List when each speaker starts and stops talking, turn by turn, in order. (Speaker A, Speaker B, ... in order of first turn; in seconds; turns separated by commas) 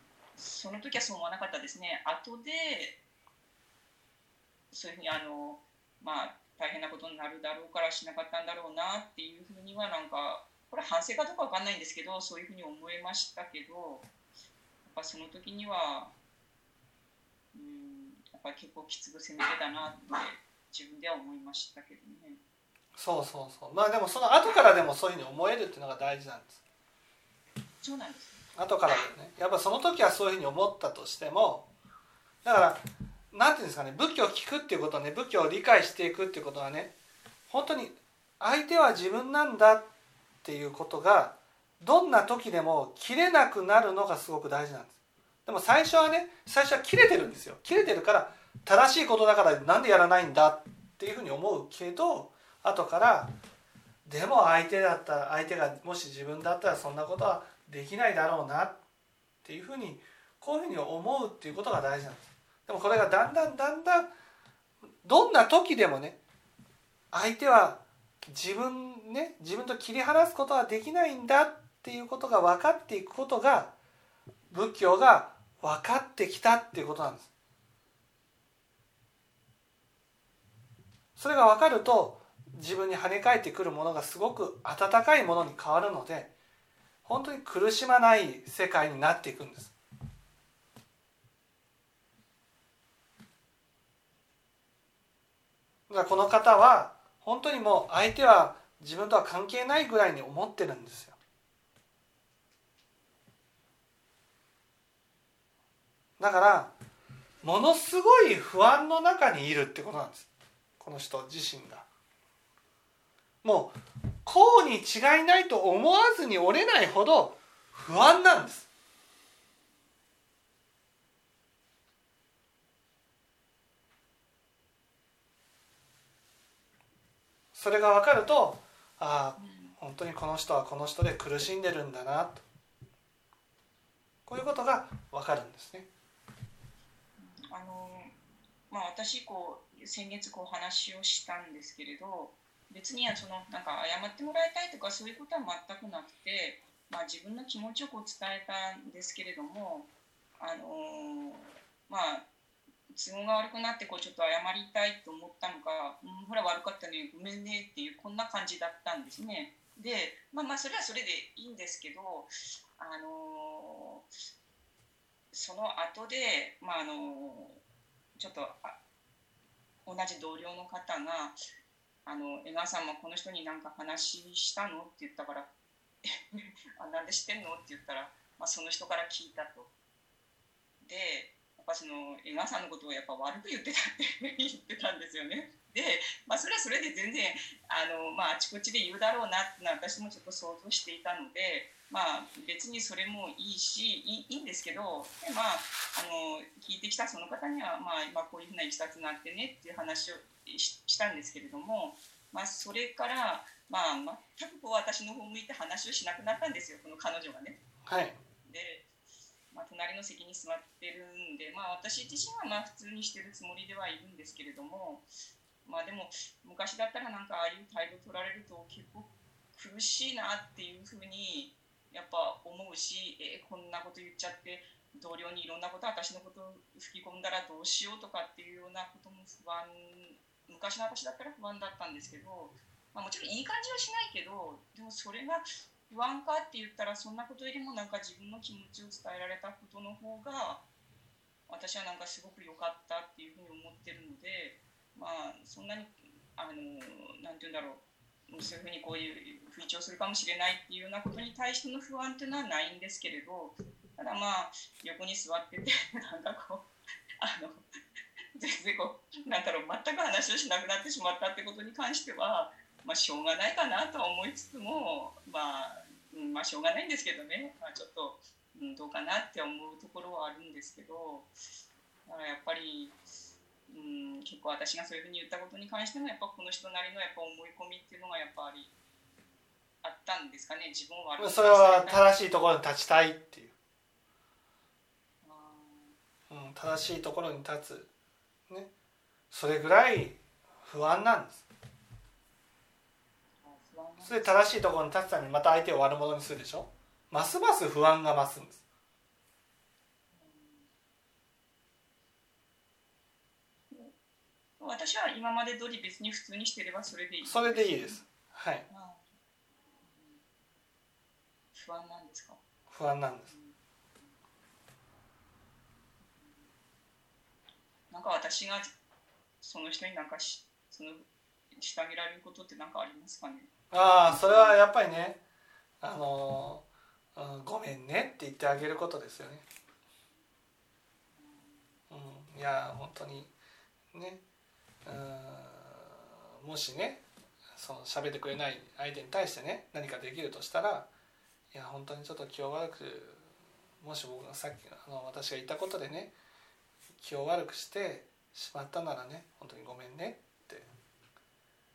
Speaker A: 0.3-3.0, Speaker A: 4.7-14.1, Speaker A: 14.8-16.1, Speaker A: 17.5-22.4, Speaker B: 22.9-26.6, Speaker A: 27.8-28.4, Speaker B: 28.6-31.7, Speaker B: 32.4-36.9, Speaker B: 37.5-39.9, Speaker B: 40.4-44.9, Speaker B: 45.5-53.3, Speaker B: 54.0-58.8, Speaker B: 59.4-64.1, Speaker B: 65.0-66.2, Speaker B: 67.1-73.7, Speaker B: 74.5-77.3, Speaker B: 81.2-86.3, Speaker B: 87.0-89.7, Speaker B: 95.9-101.2, Speaker B: 106.2-106.7, Speaker B: 107.4-110.3, Speaker B: 110.8-111.8, Speaker B: 113.4-118.7, Speaker B: 127.5-132.4, Speaker A: 129.4-129.8, Speaker B: 134.3-135.9, Speaker A: 137.2-138.1, Speaker A: 138.7-152.2, Speaker A: 152.9-164.1, Speaker A: 165.3-167.6, Speaker A: 168.1-168.8, Speaker A: 169.8-171.3, Speaker A: 172.1-175.5, Speaker A: 176.0-179.7, Speaker A: 180.8-207.6, Speaker B: 207.8-208.2, Speaker A: 208.4-208.8, Speaker A: 209.5-215.1, Speaker A: 215.6-240.6, Speaker A: 241.5-256.7, Speaker A: 257.2-257.6, Speaker A: 258.4-271.3, Speaker A: 272.1-273.0, Speaker A: 273.7-278.7, Speaker A: 279.8-282.0, Speaker B: 281.2-283.5, Speaker A: 285.2-285.9, Speaker B: 286.3-287.9, Speaker B: 289.3-291.4, Speaker A: 293.4-294.4, Speaker B: 294.0-298.6, Speaker A: 300.1-300.7, Speaker A: 304.6-308.0, Speaker B: 307.2-308.6, Speaker A: 308.7-309.0, Speaker A: 309.8-310.2, Speaker A: 311.5-312.4, Speaker B: 312.7-313.3, Speaker A: 313.3-314.1, Speaker A: 317.9-318.7, Speaker A: 319.4-323.5, Speaker B: 323.7-325.2, Speaker A: 324.1-324.6, Speaker B: 325.8-329.4, Speaker A: 331.1-331.6, Speaker B: 331.9-333.3, Speaker B: 333.9-334.2, Speaker B: 334.9-337.0, Speaker B: 337.6-340.9, Speaker B: 341.5-343.2, Speaker B: 343.8-346.1, Speaker B: 347.0-350.6